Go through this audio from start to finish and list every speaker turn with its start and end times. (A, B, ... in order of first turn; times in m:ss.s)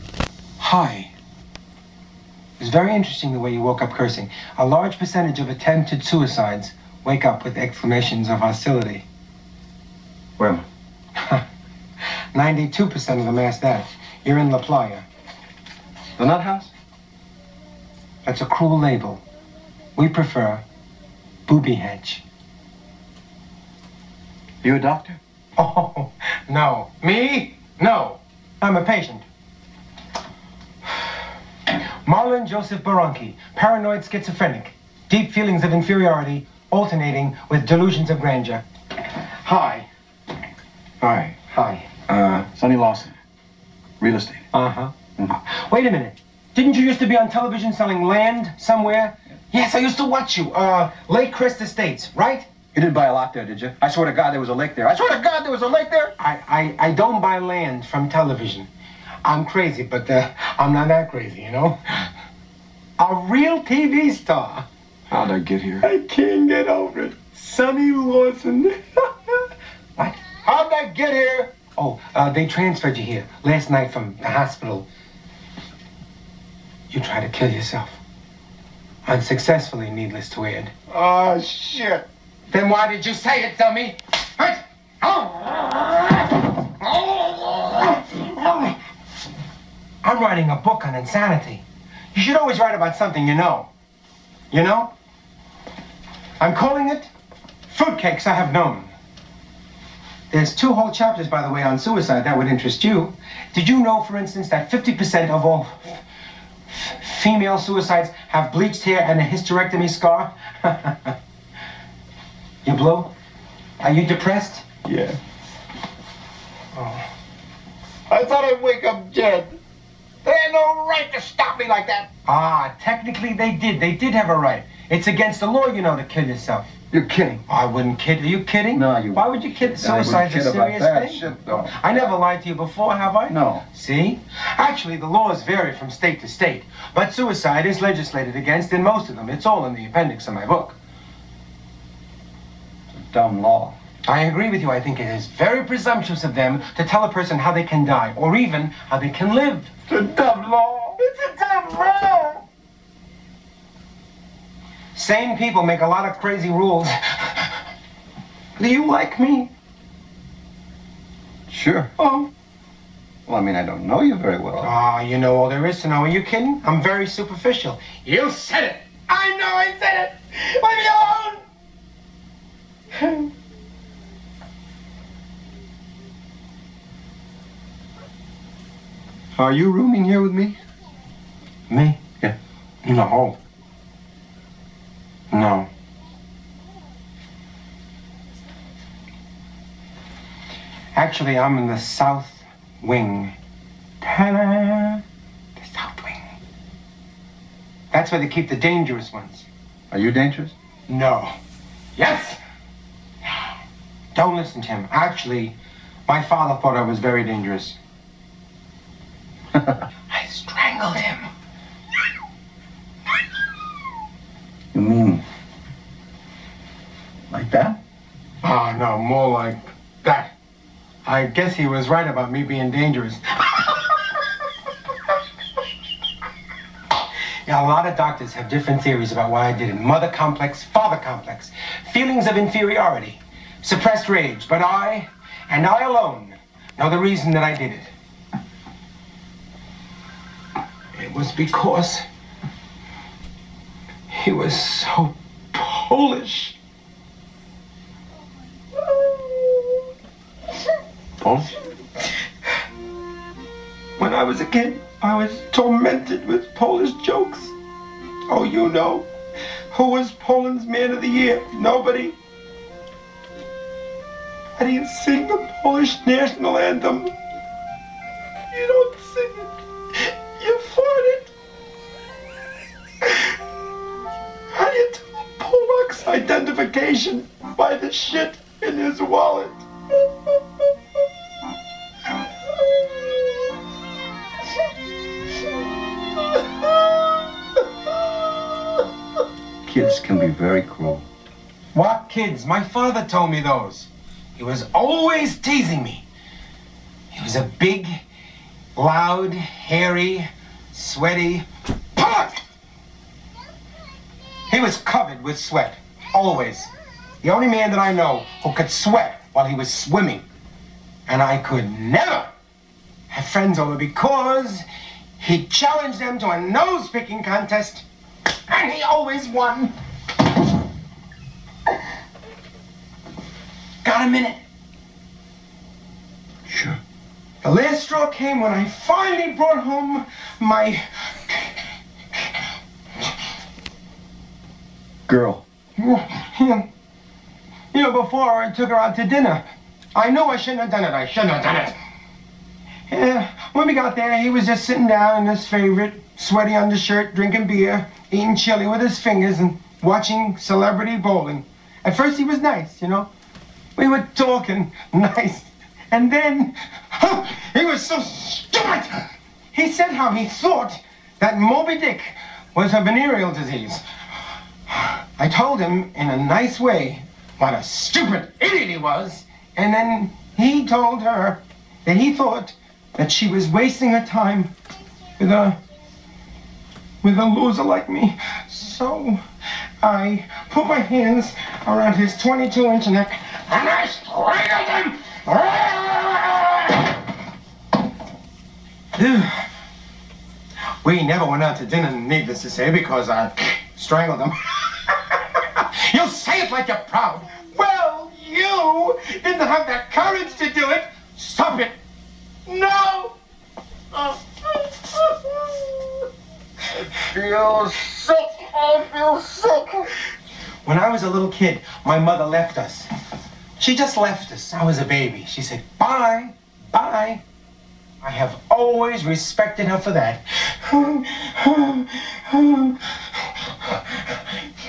0:00.6-0:01.1 A
0:02.6-0:09.0 A
0:10.4-0:10.6 B
0:12.3-0:15.0 A
0:16.2-0:16.7 B
0:18.2-0:19.2 A
0:20.0-0:20.6 A
0:21.5-0:22.2 A
0:24.6-0:25.2 B
0:25.6-0:29.2 A
0:32.0-0:38.6 A
0:39.4-0:39.9 A
0:41.0-0:41.9 A
0:42.1-0:43.1 B
0:44.0-0:44.4 B
0:44.5-0:52.5 A
0:52.7-0:56.1 B
0:56.2-0:58.7 A
0:59.2-1:02.1 A
1:03.0-1:04.6 A
1:05.1-1:05.8 B
1:05.8-1:09.4 A
1:10.0-1:14.9 A
1:16.9-1:18.0 A
1:19.0-1:20.7 A
1:20.9-1:22.0 B
1:22.5-1:28.7 A
1:30.0-1:33.7 A
1:34.5-1:34.9 A
1:36.4-1:37.1 A
1:37.7-1:38.9 A
1:40.3-1:46.0 A
1:46.7-1:51.1 A
1:52.6-1:53.1 A
1:53.8-1:54.7 A
1:54.8-1:55.1 B
1:56.8-1:57.0 A
1:58.1-1:59.5 B
2:00.2-2:02.0 B
2:02.3-2:06.7 A
2:06.9-2:07.4 B
2:07.5-2:20.8 A
2:08.7-2:12.1 B
2:13.3-2:13.6 B
2:22.9-2:23.7 B
2:24.0-2:29.7 A
2:29.9-2:31.0 B
2:31.0-2:32.4 A
2:34.9-2:37.5 A
2:38.6-2:39.5 A
2:41.5-2:41.9 B
2:42.0-2:42.3 A
2:43.3-2:44.7 B
2:44.6-2:51.4 A
2:53.0-2:53.3 A
2:59.4-3:00.6 B
3:01.7-3:02.0 A
3:02.8-3:03.4 A
3:05.3-3:05.7 A
3:10.9-3:13.3 A
3:14.0-3:15.0 A
3:15.6-3:16.2 A
3:17.9-3:19.4 A
3:19.9-3:20.5 B
3:20.9-3:21.3 A
3:22.0-3:22.4 A
3:24.1-3:25.6 A
3:26.1-3:27.8 A
3:30.1-3:31.3 A
3:34.7-3:35.2 B
3:37.3-3:37.8 B
3:38.4-3:40.3 A
3:41.0-3:44.0 A
3:47.4-3:57.9 A
4:00.9-4:02.0 A
4:04.1-4:06.6 A
4:08.9-4:09.6 A
4:11.2-4:11.5 B
4:14.0-4:17.5 A
4:18.3-4:19.0 A
4:19.7-4:22.2 A
4:24.6-4:27.1 A
4:28.5-4:31.3 A
4:33.0-4:33.3 A
4:34.5-4:39.6 A
4:49.6-4:51.0 B
4:51.7-4:56.0 A
4:57.1-4:58.0 A
4:58.8-5:02.4 A
5:04.5-5:06.7 A
5:07.2-5:10.2 A
5:11.1-5:12.3 A
5:13.1-5:14.6 A
5:15.2-5:17.8 A
5:18.5-5:19.7 A
5:23.8-5:24.4 A
5:26.5-5:26.8 B
5:27.4-5:31.5 A
5:35.1-5:35.4 B
5:35.8-5:36.7 A
5:37.7-5:39.4 A
5:39.9-5:41.8 A
5:42.9-5:53.1 A
5:53.8-6:03.8 A
6:04.7-6:14.5 A
6:15.2-6:15.6 A
6:17.0-6:19.2 A
6:19.8-6:27.0 A
6:28.9-6:29.4 A
6:30.8-6:41.8 A
6:42.5-6:43.1 A
6:44.9-6:45.4 A
6:46.9-6:49.9 B
6:50.6-6:52.9 A
6:53.6-6:57.2 A
6:58.0-7:04.2 A